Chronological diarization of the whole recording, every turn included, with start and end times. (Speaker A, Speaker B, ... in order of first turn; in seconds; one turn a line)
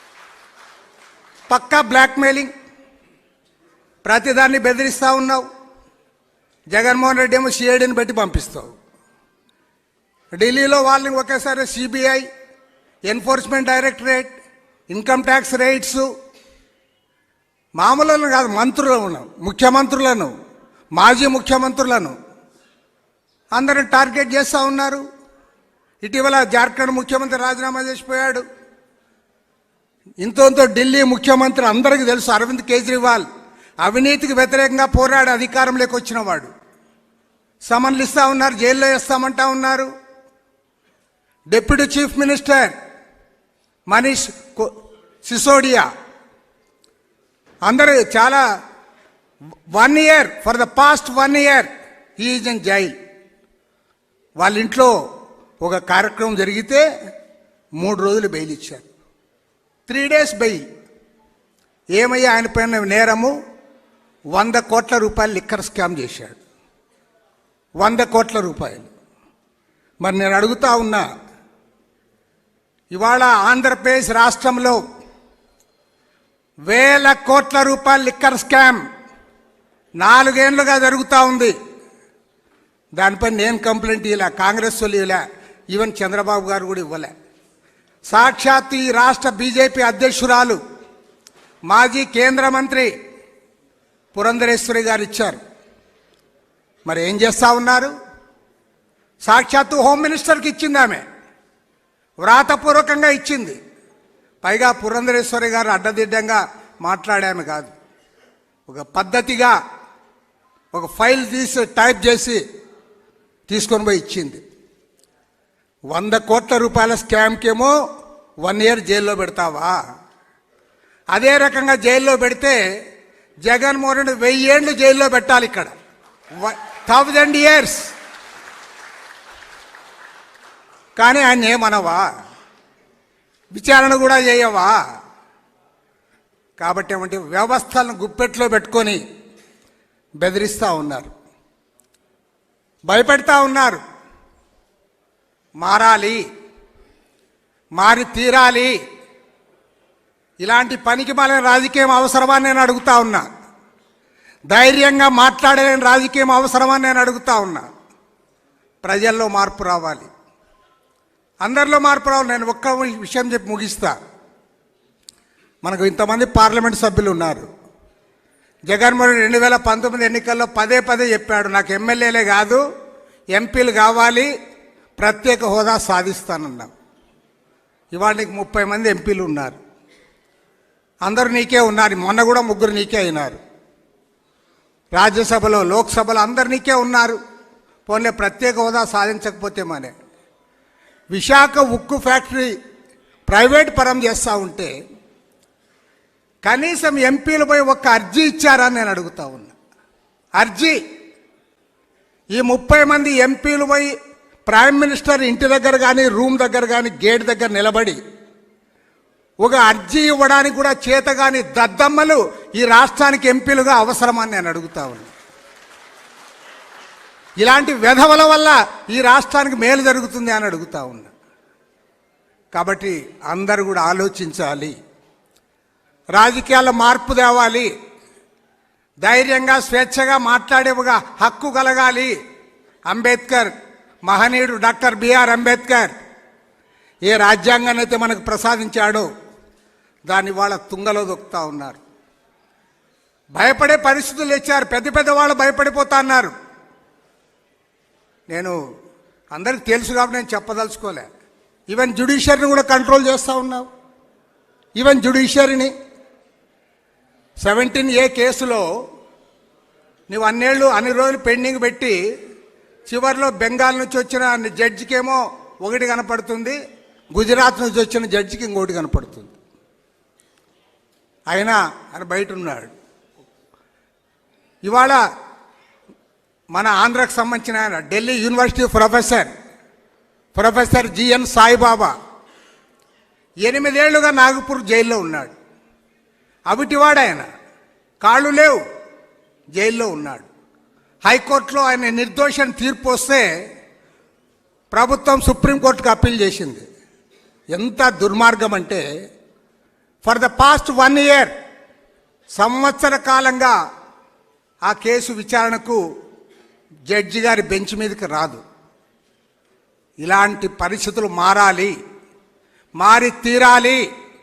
Speaker A: 1.5-2.5
Speaker A: 4.0-5.5
Speaker A: 6.7-8.7
Speaker A: 10.3-12.2
Speaker A: 13.1-14.3
Speaker A: 14.9-16.0
Speaker A: 17.8-20.3
Speaker A: 20.9-22.1
Speaker A: 23.5-25.0
Speaker A: 26.0-28.4
Speaker A: 30.2-33.3
Speaker A: 33.8-36.5
Speaker A: 37.6-39.9
Speaker A: 41.5-42.7
Speaker A: 43.9-44.7
Speaker A: 45.2-45.8
Speaker A: 47.6-48.4
Speaker A: 49.7-52.9
Speaker A: 54.4-54.9
Speaker A: 55.6-56.8
Speaker A: 57.8-58.8
Speaker A: 59.9-60.6
Speaker A: 61.9-63.3
Speaker A: 64.3-66.4
Speaker A: 67.8-68.9
Speaker A: 70.0-71.0
Speaker A: 72.9-74.8
Speaker A: 76.7-78.8
Speaker A: 80.0-81.5
Speaker A: 82.9-87.1
Speaker A: 88.1-90.6
Speaker A: 91.7-92.9
Speaker A: 94.1-95.4
Speaker A: 96.8-97.9
Speaker A: 99.2-101.0
Speaker A: 102.2-103.6
Speaker A: 104.4-107.7
Speaker A: 108.7-109.5
Speaker A: 110.7-112.4
Speaker A: 113.5-114.4
Speaker A: 115.9-117.7
Speaker A: 118.4-119.8
Speaker A: 121.1-122.6
Speaker A: 123.4-125.7
Speaker A: 126.4-127.9
Speaker A: 131.0-132.0
Speaker A: 133.5-134.8
Speaker A: 136.6-139.0
Speaker A: 140.2-141.1
Speaker A: 142.9-143.8
Speaker A: 145.6-146.2
Speaker A: 147.8-148.7
Speaker A: 150.4-153.2
Speaker A: 154.5-157.7
Speaker A: 158.8-160.1
Speaker A: 161.4-163.9
Speaker A: 165.6-167.5
Speaker A: 168.7-172.6
Speaker A: 173.3-174.3
Speaker A: 175.0-176.7
Speaker A: 177.9-179.6
Speaker A: 181.0-183.4
Speaker A: 184.9-187.2
Speaker A: 187.9-189.9
Speaker A: 191.1-192.5
Speaker A: 193.3-194.7
Speaker A: 196.4-199.5
Speaker A: 200.4-200.8
Speaker A: 202.3-203.9
Speaker A: 204.4-208.0
Speaker A: 209.4-215.1
Speaker A: 217.4-221.1
Speaker A: 222.5-224.7
Speaker A: 226.1-227.7
Speaker A: 229.0-232.1
Speaker A: 232.9-233.5
Speaker A: 234.0-235.9
Speaker A: 237.1-239.1
Speaker A: 240.1-241.8
Speaker A: 243.3-246.3
Speaker A: 248.3-248.5
Speaker A: 249.3-251.1
Speaker A: 251.7-253.7
Speaker A: 254.8-255.7
Speaker A: 257.4-258.6
Speaker A: 260.1-261.9
Speaker A: 262.9-266.6
Speaker A: 267.1-269.3
Speaker A: 271.3-272.7
Speaker A: 274.6-275.0
Speaker A: 276.5-279.3
Speaker A: 280.3-281.9
Speaker A: 283.4-285.3
Speaker A: 286.5-287.2
Speaker A: 288.0-288.6
Speaker A: 289.5-290.3
Speaker A: 291.0-293.2
Speaker A: 294.7-296.6
Speaker A: 297.5-298.8
Speaker A: 300.0-301.3
Speaker A: 302.3-303.5
Speaker A: 304.6-305.8
Speaker A: 306.9-308.4
Speaker A: 310.0-311.7
Speaker A: 312.8-313.8